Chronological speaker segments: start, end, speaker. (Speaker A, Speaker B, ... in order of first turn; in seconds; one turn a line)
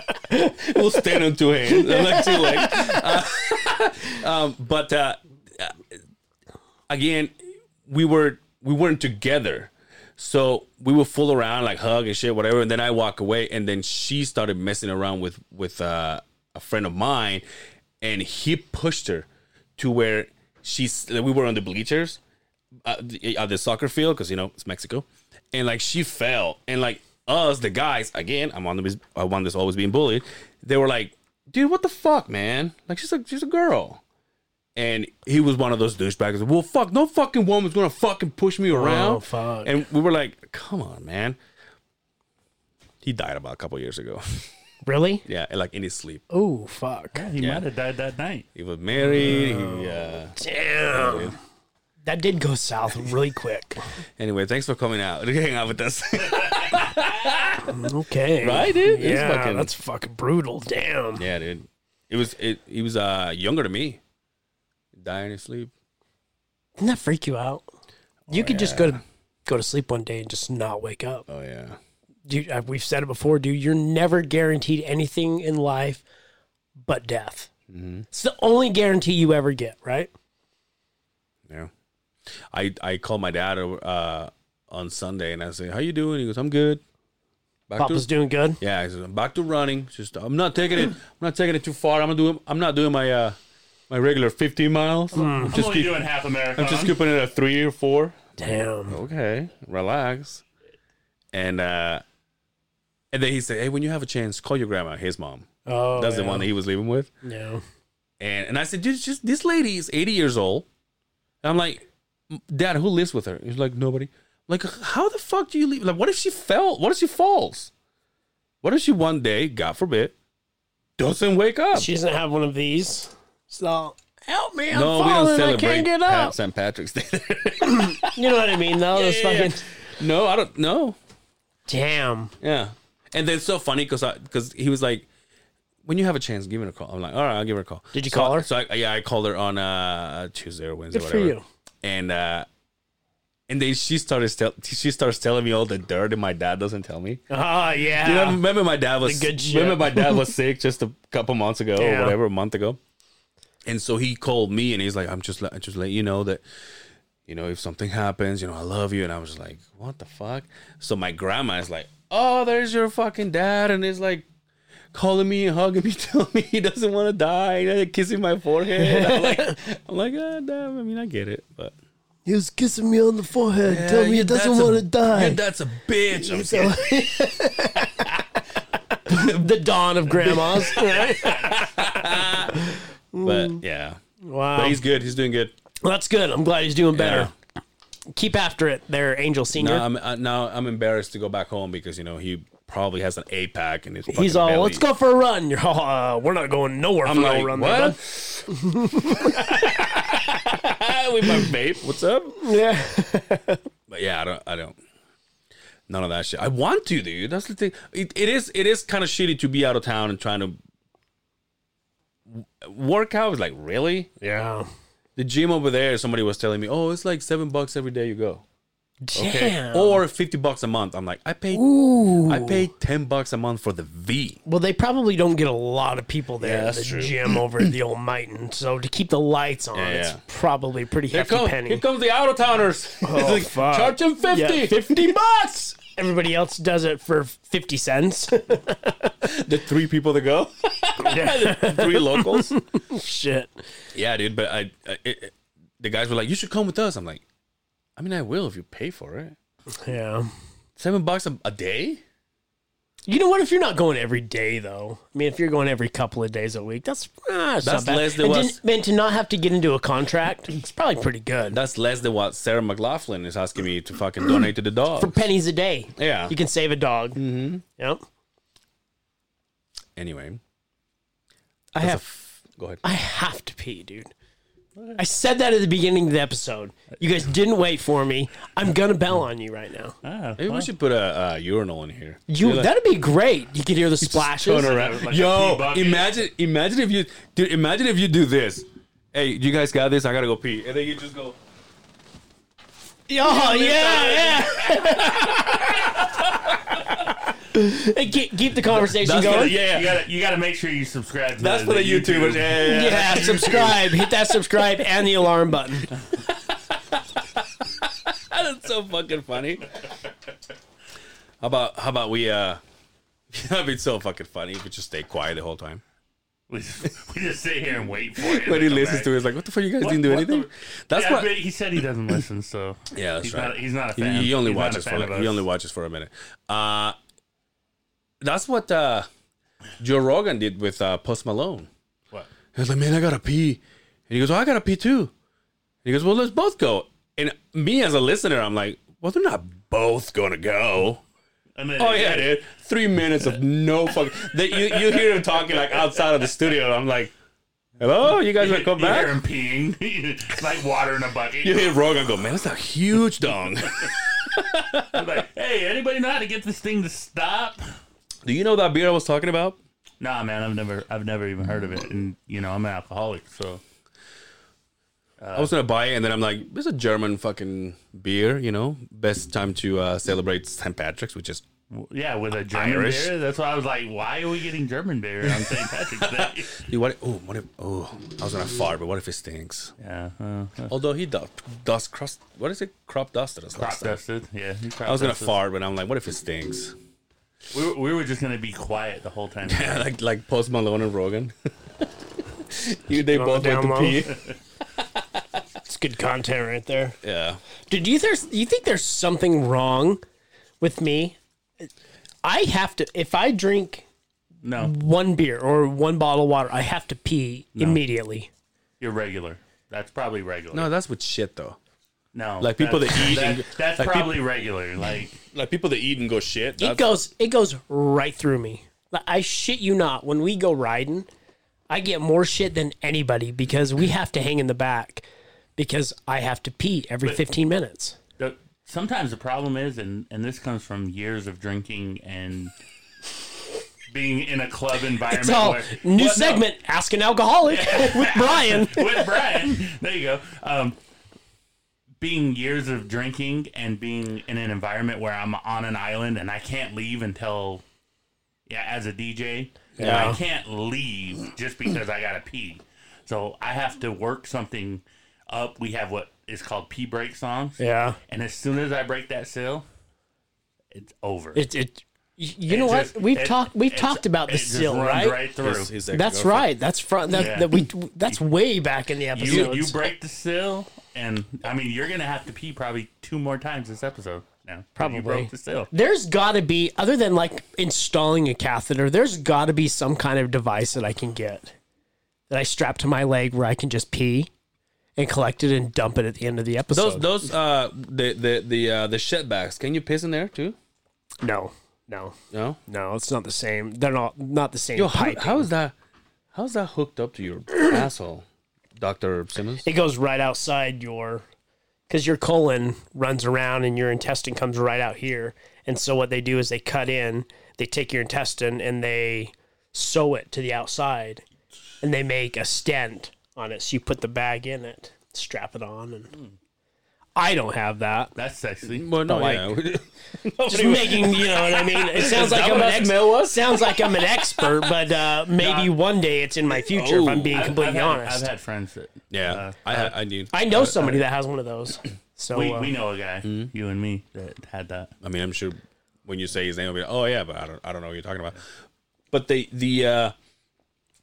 Speaker A: 0.3-5.8
Speaker B: 1.7-3.0
Speaker A: 6.9-7.3
Speaker A: 7.8-17.4
Speaker A: 18.0-22.2
Speaker A: 22.8-34.0
Speaker A: 34.8-41.4
Speaker B: 38.7-39.7
Speaker A: 43.0-44.5
Speaker B: 44.9-45.2
Speaker A: 45.2-46.2
Speaker B: 46.3-47.3
Speaker C: 47.1-48.5
Speaker A: 47.4-47.6
Speaker A: 48.5-50.4
Speaker B: 49.0-51.4
Speaker A: 50.9-51.4
Speaker B: 52.0-53.8
Speaker A: 54.2-57.9
Speaker B: 57.6-61.2
Speaker A: 58.4-59.7
Speaker A: 61.2-64.0
Speaker A: 65.0-65.7
Speaker B: 66.8-67.7
Speaker A: 68.3-69.0
Speaker B: 68.3-71.3
Speaker A: 71.3-71.8
Speaker B: 72.3-76.0
Speaker B: 76.8-77.5
Speaker A: 77.7-78.1
Speaker B: 78.1-80.1
Speaker A: 82.5-86.8
Speaker A: 87.7-88.1
Speaker B: 87.8-88.6
Speaker A: 88.6-93.4
Speaker A: 93.9-96.0
Speaker B: 95.1-95.5
Speaker C: 95.5-97.0
Speaker A: 96.6-98.2
Speaker B: 98.4-99.0
Speaker A: 98.9-100.4
Speaker A: 101.3-102.0
Speaker A: 103.1-107.1
Speaker B: 105.7-106.5
Speaker B: 107.2-107.6
Speaker A: 108.2-110.7
Speaker A: 111.4-117.7
Speaker A: 118.6-120.1
Speaker A: 121.0-121.9
Speaker B: 121.7-126.4
Speaker A: 124.7-131.0
Speaker B: 127.7-129.6
Speaker B: 131.7-132.3
Speaker A: 132.4-135.1
Speaker A: 135.8-142.5
Speaker B: 137.9-138.5
Speaker B: 140.9-141.4
Speaker A: 143.5-147.2
Speaker B: 147.3-148.4
Speaker A: 148.0-152.8
Speaker B: 149.0-150.3
Speaker B: 151.8-152.2
Speaker A: 153.7-156.4
Speaker A: 157.3-164.3
Speaker A: 164.9-171.7
Speaker B: 168.8-169.6
Speaker B: 172.3-175.4
Speaker A: 173.6-177.2
Speaker B: 176.1-178.2
Speaker B: 178.9-183.6
Speaker A: 179.1-179.5
Speaker C: 180.3-181.9
Speaker A: 181.3-184.0
Speaker B: 184.2-184.8
Speaker A: 184.6-185.6
Speaker B: 185.8-187.3
Speaker A: 186.9-187.3
Speaker B: 188.1-189.8
Speaker A: 189.6-194.9
Speaker B: 194.1-198.0
Speaker A: 197.1-198.5
Speaker B: 198.5-199.6
Speaker A: 199.0-202.5
Speaker B: 202.4-203.6
Speaker A: 203.9-204.8
Speaker A: 205.9-210.6
Speaker A: 212.3-214.1
Speaker B: 214.2-214.7
Speaker A: 215.2-218.4
Speaker B: 219.0-220.0
Speaker A: 219.2-224.4
Speaker B: 221.5-222.7
Speaker B: 224.5-231.8
Speaker A: 226.4-227.7
Speaker A: 229.7-230.2
Speaker A: 231.1-235.3
Speaker B: 233.0-239.1
Speaker A: 239.2-242.5
Speaker B: 241.0-243.6
Speaker A: 243.9-247.2
Speaker A: 248.0-249.3
Speaker B: 249.8-250.3
Speaker A: 250.8-252.0
Speaker B: 253.1-261.6
Speaker A: 257.6-258.6
Speaker A: 261.5-265.2
Speaker B: 265.0-268.0
Speaker A: 266.0-266.4
Speaker A: 267.2-267.6
Speaker A: 270.0-270.4
Speaker B: 271.7-272.0
Speaker A: 271.8-272.8
Speaker B: 272.8-274.1
Speaker B: 275.0-279.9
Speaker C: 280.0-280.7
Speaker A: 280.4-282.7
Speaker B: 282.3-284.7
Speaker A: 284.0-291.4
Speaker C: 284.5-286.1
Speaker B: 293.1-295.9
Speaker A: 293.2-296.8
Speaker B: 297.4-299.6
Speaker A: 298.7-300.0
Speaker C: 299.2-303.0
Speaker A: 301.4-304.2
Speaker B: 302.6-305.9
Speaker A: 306.1-309.7
Speaker A: 311.4-312.6
Speaker A: 313.3-315.8
Speaker C: 316.5-319.1
Speaker A: 318.2-321.3
Speaker C: 319.8-325.4
Speaker A: 322.9-327.0
Speaker A: 328.2-329.1
Speaker A: 329.8-331.7
Speaker A: 332.5-335.1
Speaker A: 335.8-341.0
Speaker C: 341.6-342.4
Speaker A: 341.8-347.1
Speaker C: 344.6-345.9
Speaker A: 347.8-349.2
Speaker C: 348.4-351.8
Speaker A: 351.4-355.1
Speaker C: 354.9-357.7
Speaker A: 358.2-359.6
Speaker C: 360.0-363.6
Speaker C: 365.2-365.5
Speaker A: 365.4-371.4
Speaker C: 371.7-376.7
Speaker A: 372.5-373.1
Speaker A: 375.2-379.7
Speaker C: 379.8-380.7
Speaker A: 380.7-384.0
Speaker C: 383.6-385.4
Speaker A: 384.9-386.8
Speaker C: 387.5-389.9
Speaker A: 389.5-394.2
Speaker B: 393.1-394.1
Speaker A: 394.8-395.2
Speaker B: 395.6-397.0
Speaker A: 397.0-397.4
Speaker B: 397.7-400.0
Speaker B: 400.6-401.7
Speaker B: 402.2-403.9
Speaker C: 404.4-404.7
Speaker B: 404.6-408.3
Speaker C: 408.8-410.7
Speaker A: 410.5-411.6
Speaker C: 412.1-415.2
Speaker A: 412.4-414.2
Speaker A: 415.3-416.9
Speaker B: 416.6-421.1
Speaker B: 421.7-425.1
Speaker B: 425.6-428.0
Speaker C: 428.2-432.5
Speaker C: 433.9-436.5
Speaker B: 435.1-439.1
Speaker C: 437.5-440.8
Speaker C: 442.0-447.6
Speaker C: 448.5-459.7
Speaker A: 449.8-450.2
Speaker B: 449.8-450.2
Speaker B: 457.6-458.0
Speaker C: 460.7-461.4
Speaker B: 461.4-465.2
Speaker C: 462.5-465.7
Speaker A: 465.4-466.5
Speaker B: 465.9-469.8
Speaker C: 467.1-468.2
Speaker C: 469.1-475.7
Speaker A: 469.3-469.6
Speaker B: 474.8-481.5
Speaker B: 482.3-484.3
Speaker B: 485.0-487.1
Speaker A: 486.7-490.6
Speaker B: 491.2-492.2
Speaker A: 492.3-492.6
Speaker B: 492.7-495.5
Speaker A: 494.8-495.8
Speaker A: 496.3-498.2
Speaker A: 498.8-499.7
Speaker B: 499.6-501.2
Speaker B: 501.9-511.2
Speaker B: 511.8-516.1
Speaker B: 517.2-518.1
Speaker C: 518.2-518.9
Speaker A: 518.6-524.7
Speaker B: 519.1-519.5
Speaker B: 520.5-528.2
Speaker A: 525.4-525.7
Speaker A: 526.5-527.5
Speaker C: 527.3-529.9
Speaker A: 529.1-531.0
Speaker B: 530.3-532.7
Speaker C: 532.3-534.9
Speaker A: 533.2-533.5
Speaker A: 535.0-538.4
Speaker A: 539.1-540.1